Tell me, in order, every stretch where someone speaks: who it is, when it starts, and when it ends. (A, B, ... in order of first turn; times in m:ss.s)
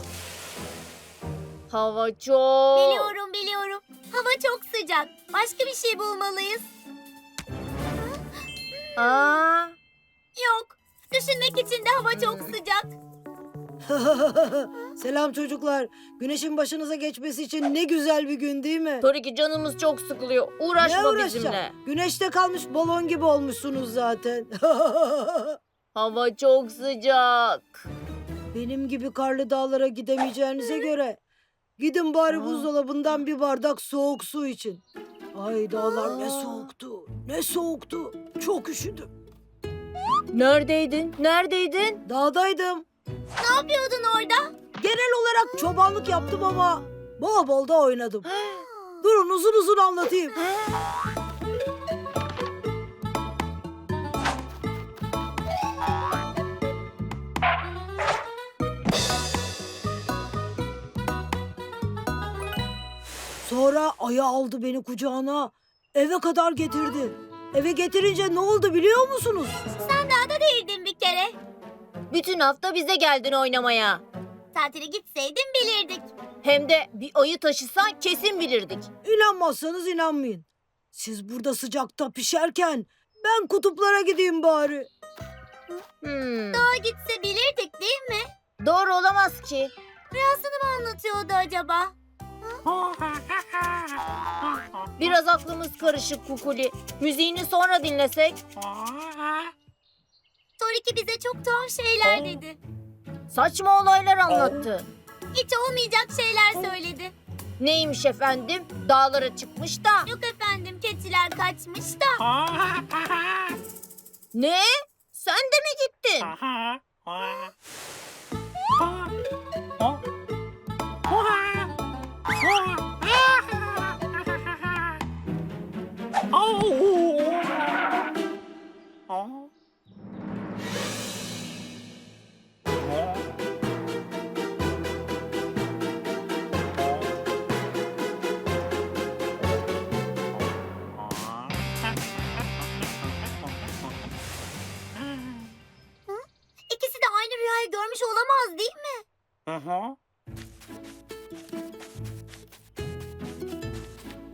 0:01.7-0:03.1 A
0:02.8-0:06.7 B
0:08.8-0:09.1 B
0:09.0-0:09.8 A
0:10.4-0:12.9 B
0:12.2-0:12.5 A
0:13.9-0:19.1 C
0:19.0-0:21.7 A
0:20.8-0:25.6 C
0:26.0-0:27.9 A
0:28.5-0:31.2 C
0:31.8-0:34.8 C
0:32.3-0:32.7 A
0:35.3-0:39.1 C
0:36.1-0:36.7 A
0:40.3-0:42.0 A
0:42.1-0:42.8 C
0:43.4-0:44.5 B
0:44.8-0:48.3 C
0:48.5-0:48.9 B
0:49.0-0:50.4 C
1:03.4-1:09.6 C
1:09.8-1:11.4 B
1:12.1-1:14.0 A
1:14.5-1:16.1 B
1:16.4-1:18.9 A
1:19.0-1:24.9 C
1:26.0-1:26.6 A
1:26.5-1:28.3 B
1:28.6-1:29.7 A
1:30.1-1:32.0 B
1:35.0-1:38.4 A
1:40.6-1:42.6 B
1:43.3-1:44.9 A
1:45.3-1:47.1 B
1:47.6-1:50.1 A
1:50.1-1:52.3 B
1:54.3-1:56.4 A
2:26.1-2:29.0 B